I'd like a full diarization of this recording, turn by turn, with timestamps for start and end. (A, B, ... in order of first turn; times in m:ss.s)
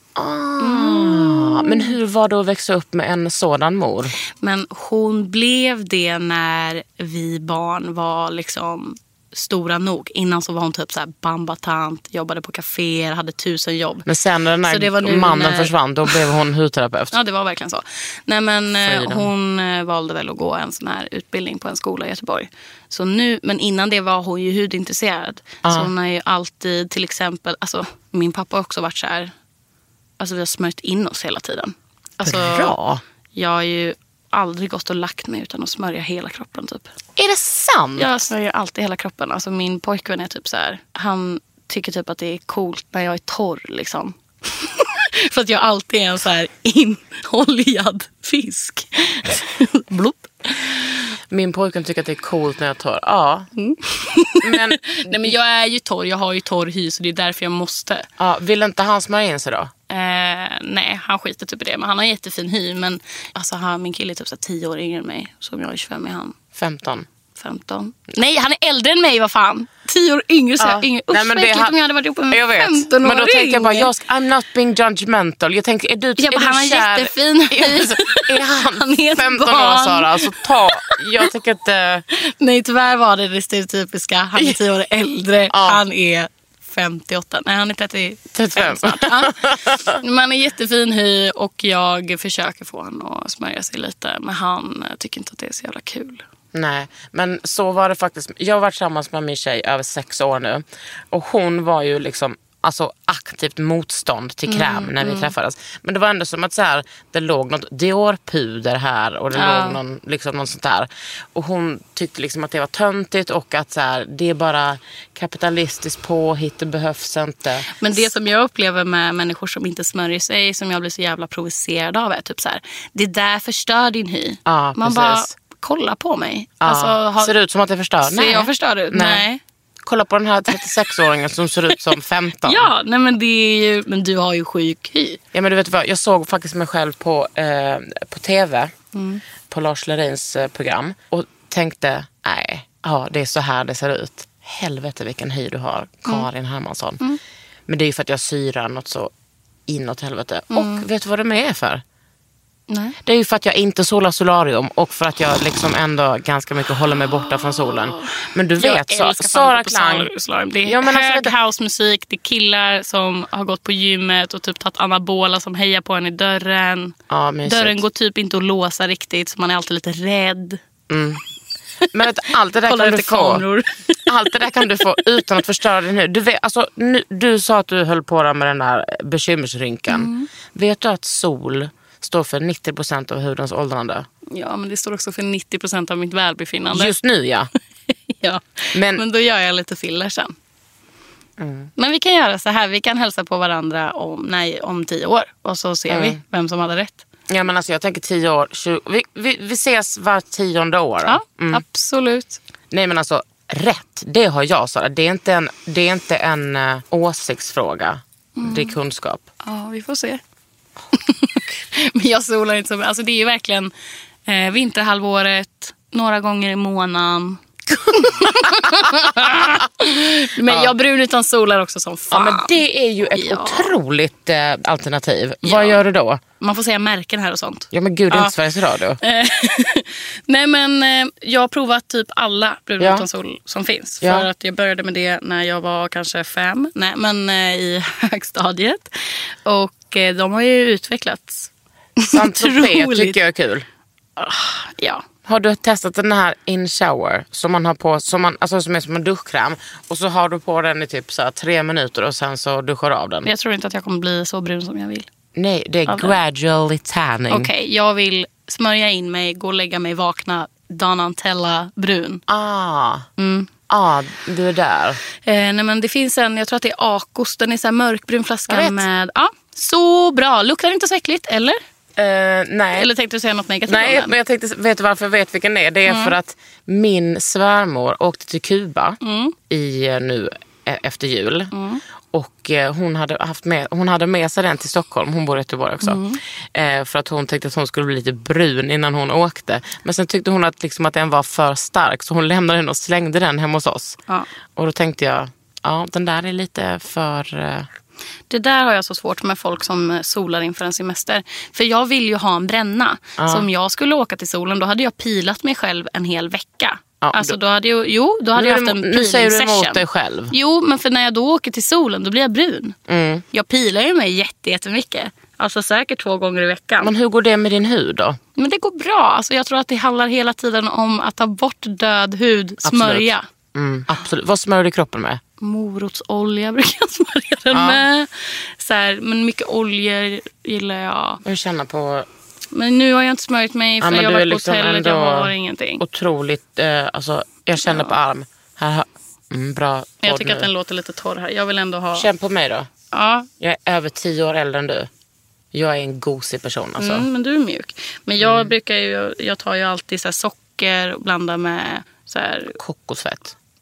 0:00.2-0:04.2 A
0:00.6-0:02.0 B
0:04.4-0:14.1 B
0:14.1-0:17.2 A
0:14.7-0:16.3 B
0:17.1-0:29.3 B
0:18.8-0:19.3 A
0:25.6-0:25.9 A
0:30.2-0:32.8 B
0:32.2-0:33.0 A
0:33.4-0:36.9 B
0:37.2-0:38.1 A
0:38.0-0:50.8 B
0:51.3-0:53.5 A
0:53.6-0:58.1 B
0:54.4-0:55.4 A
0:58.2-0:59.7 A
0:59.9-1:06.3 B
1:06.6-1:07.1 A
1:07.4-1:13.9 B
1:10.6-1:11.8 A
1:12.3-1:22.0 A
1:16.2-1:21.0 B
1:22.1-1:36.2 B
1:25.5-1:25.8 A
1:28.4-1:30.0 A
1:36.5-1:57.7 A
1:44.5-1:45.3 B
1:49.3-1:49.8 B
1:57.8-2:07.3 B
2:04.5-2:05.3 A
2:06.6-2:09.2 A
2:08.0-2:09.4 B
2:09.8-2:12.7 A
2:12.4-2:15.2 B
2:15.3-2:18.7 A
2:18.9-2:19.2 B
2:19.5-2:27.0 A
2:27.7-2:29.1 A
2:29.7-2:31.8 A
2:30.5-2:30.9 B
2:32.7-2:33.0 B
2:33.0-2:40.1 A
2:37.0-2:50.6 B
2:40.6-2:41.3 A
2:47.1-2:47.8 A
2:50.9-2:51.2 A
2:51.9-2:53.4 A
2:52.7-2:55.0 B
2:54.1-3:04.1 A
2:59.9-3:00.3 B
3:04.3-3:06.9 B
3:06.7-3:07.5 A
3:08.1-3:10.3 B
3:08.7-3:09.0 A
3:11.4-3:11.7 A
3:11.8-3:17.0 B
3:15.9-3:16.2 A
3:17.3-3:21.6 A
3:21.1-3:22.4 B
3:22.7-3:29.2 A
3:28.4-3:28.8 B
3:29.4-3:30.2 B
3:30.9-3:33.7 B
3:34.3-3:42.6 B
3:40.4-3:40.7 A
3:42.1-3:46.2 A
3:43.1-3:43.7 B
3:45.4-3:45.8 B
3:46.4-3:48.3 B
3:47.7-3:49.0 A
3:49.0-4:03.2 B
3:52.8-3:53.1 A
3:54.0-3:54.3 A
4:02.1-4:03.7 A
4:04.2-4:05.0 B
4:05.3-4:13.3 A
4:13.2-4:15.1 B
4:15.4-4:17.5 A
4:15.9-4:16.2 B
4:17.3-4:22.2 B
4:22.3-4:23.1 A
4:23.2-4:23.5 B
4:23.7-4:25.0 A
4:25.3-4:31.6 B
4:28.5-4:28.9 A
4:32.0-4:32.9 A
4:32.8-4:34.2 B
4:33.7-4:39.0 A
4:35.9-4:36.2 B
4:39.0-4:39.4 B
4:39.5-4:41.5 A
4:41.5-4:41.8 B
4:42.1-4:46.0 A
4:45.8-4:46.2 B
4:46.5-4:54.0 A
4:54.6-4:57.7 A
4:58.3-5:12.8 B
5:03.2-5:03.5 A
5:07.0-5:07.4 A
5:08.4-5:10.3 A
5:12.9-5:13.2 A
5:13.3-5:16.9 B
5:16.8-5:18.2 A
5:18.4-5:23.2 B
5:22.6-5:25.2 A
5:25.4-5:31.2 B
5:27.5-5:27.8 A
5:31.2-5:32.1 A
5:32.5-5:35.8 B
5:33.8-5:40.5 A
5:37.6-5:38.0 B
5:40.0-5:42.1 B
5:42.0-5:42.7 A
5:42.9-5:43.3 B
5:43.4-5:44.9 A
5:45.5-5:47.1 A
5:46.8-5:52.6 B
5:48.2-5:48.5 A
5:52.6-5:53.4 A